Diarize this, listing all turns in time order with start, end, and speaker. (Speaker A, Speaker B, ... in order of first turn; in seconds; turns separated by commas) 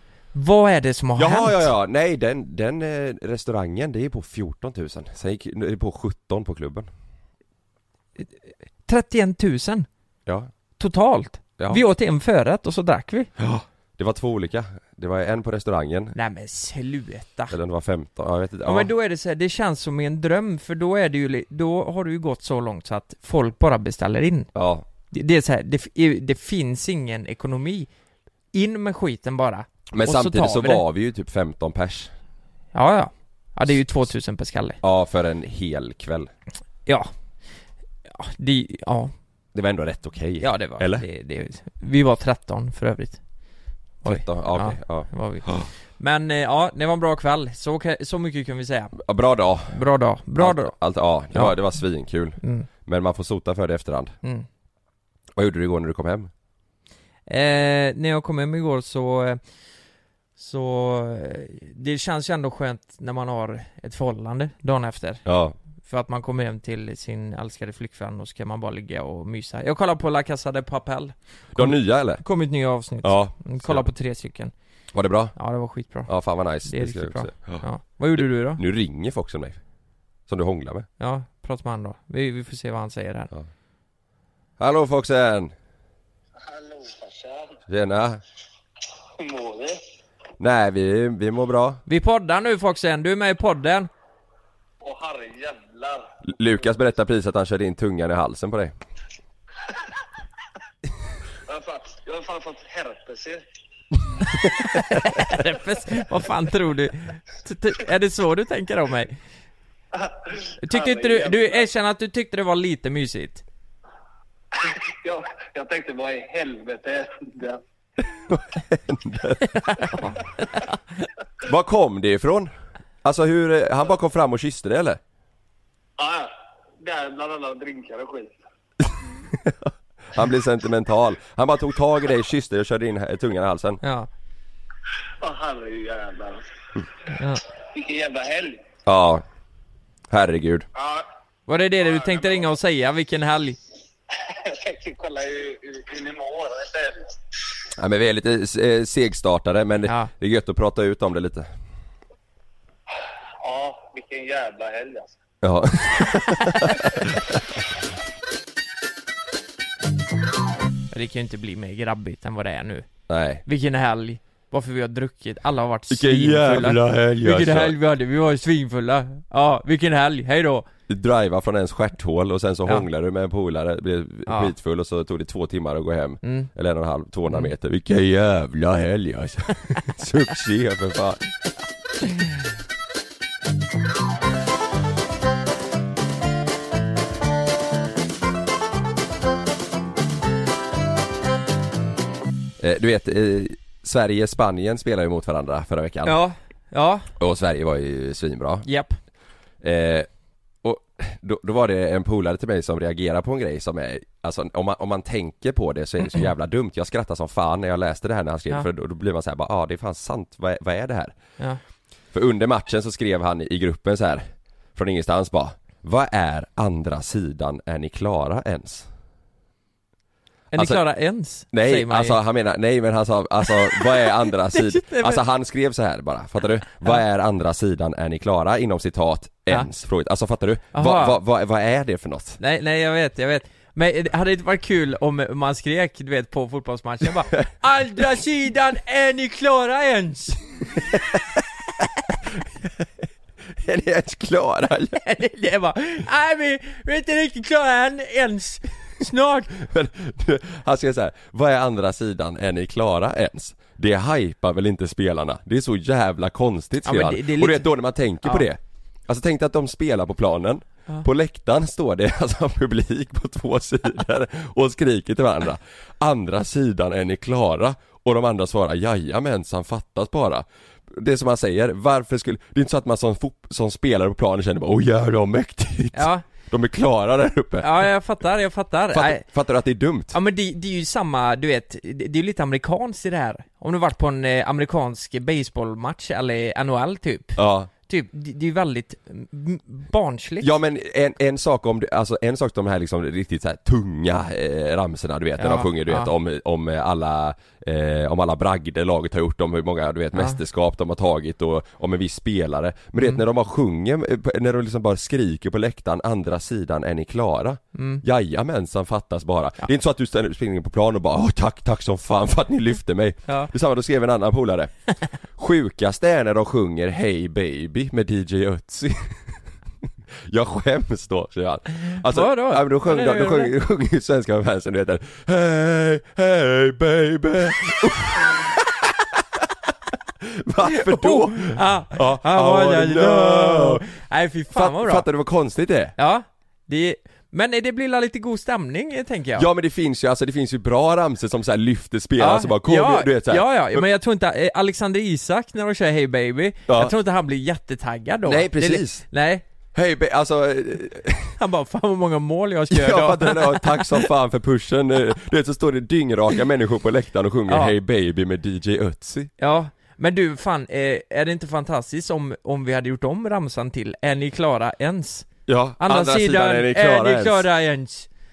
Speaker A: 0.3-1.7, Speaker B: 1.2-6.9, Speaker A: 8.2-9.9, Speaker A: 10.8-13.3, Speaker B: 13.4-16.1, Speaker A: 16.1-17.6, Speaker B: 17.5-18.9, Speaker A: 18.6-24.5, Speaker B: 24.5-24.8, Speaker A: 25.1-27.9, Speaker A: 28.5-30.8, Speaker B: 29.9-32.1, Speaker A: 32.7-34.8, Speaker B: 34.8-36.3, Speaker A: 36.9-37.1, Speaker A: 38.1-39.1, Speaker B: 39.5-41.0, Speaker A: 40.4-43.2, Speaker A: 44.0-49.0, Speaker B: 44.0-45.7, Speaker B: 49.0-49.8, Speaker A: 49.7-50.7, Speaker B: 50.4-54.1, Speaker A: 51.3-51.6, Speaker A: 52.4-52.7, Speaker B: 55.4-56.3, Speaker A: 57.3-59.4, Speaker A: 60.4-65.2, Speaker B: 65.2-65.5, Speaker A: 65.8-74.5, Speaker B: 71.5-72.2, Speaker B: 73.0-73.9, Speaker B: 74.9-75.3, Speaker A: 75.3-76.1, Speaker B: 76.1-77.6, Speaker A: 76.6-78.6, Speaker B: 78.2-79.6, Speaker B: 80.3-80.9, Speaker A: 81.0-83.3, Speaker B: 84.6-85.5, Speaker C: 86.4-87.5, Speaker B: 87.7-88.2, Speaker C: 89.2-89.8, Speaker B: 90.4-91.8, Speaker A: 91.8-93.9, Speaker C: 94.8-96.1, Speaker B: 96.2-98.7, Speaker C: 101.5-103.4, Speaker A: 104.4-109.2, Speaker C: 109.9-111.7, Speaker A: 110.6-113.4, Speaker C: 114.5-117.6, Speaker B: 118.3-120.1, Speaker A: 119.4-121.1, Speaker B: 121.4-122.5, Speaker B: 123.0-125.0, Speaker C: 126.0-128.4, Speaker B: 129.4-133.8, Speaker A: 133.8-134.1, Speaker C: 135.2-136.4, Speaker A: 137.1-137.4, Speaker C: 137.7-138.6, Speaker B: 138.8-139.2, Speaker B: 140.1-140.7, Speaker C: 140.7-141.1, Speaker A: 141.5-143.6, Speaker C: 141.8-142.5, Speaker C: 144.1-147.2, Speaker B: 147.8-151.5, Speaker A: 149.8-150.1, Speaker C: 153.4-155.2, Speaker B: 155.4-157.4, Speaker A: 160.9-162.9, Speaker B: 163.1-163.4, Speaker A: 163.4-170.7, Speaker B: 165.9-167.8, Speaker B: 170.9-181.2, Speaker A: 174.2-174.5, Speaker A: 176.2-176.5, Speaker B: 192.6-196.2, Speaker A: 196.0-197.1, Speaker B: 197.2-198.7, Speaker A: 198.6-199.0, Speaker B: 199.6-200.1, Speaker B: 200.6-211.2, Speaker B: 212.1-218.9, Speaker A: 220.5-222.2, Speaker B: 220.6-220.8, Speaker B: 221.5-232.4, Speaker A: 223.4-225.2, Speaker A: 230.7-231.2, Speaker A: 232.4-240.5, Speaker B: 243.6-245.0, Speaker A: 244.9-249.5, Speaker B: 249.5-277.9, Speaker A: 256.8-258.5, Speaker A: 275.9-276.2, Speaker A: 277.6-279.2, Speaker B: 278.9-280.1, Speaker A: 280.1-290.5, Speaker B: 287.4-287.7, Speaker B: 290.4-314.7, Speaker A: 295.4-296.1, Speaker A: 300.1-300.4, Speaker A: 303.0-303.2, Speaker A: 307.7-308.0, Speaker A: 313.3-313.5, Speaker B: 315.3-319.3, Speaker B: 320.3-328.5, Speaker A: 321.9-323.5, Speaker B: 330.2-333.8, Speaker A: 330.6-335.1, Speaker B: 334.5-335.9, Speaker A: 336.0-339.5, Speaker B: 339.4-343.8, Speaker A: 342.2-349.4, Speaker B: 346.7-346.9, Speaker B: 348.2-349.0, Speaker B: 349.7-351.4, Speaker A: 351.4-354.1, Speaker B: 352.7-359.3, Speaker A: 357.5-357.7, Speaker A: 359.4-368.1, Speaker B: 365.5-367.4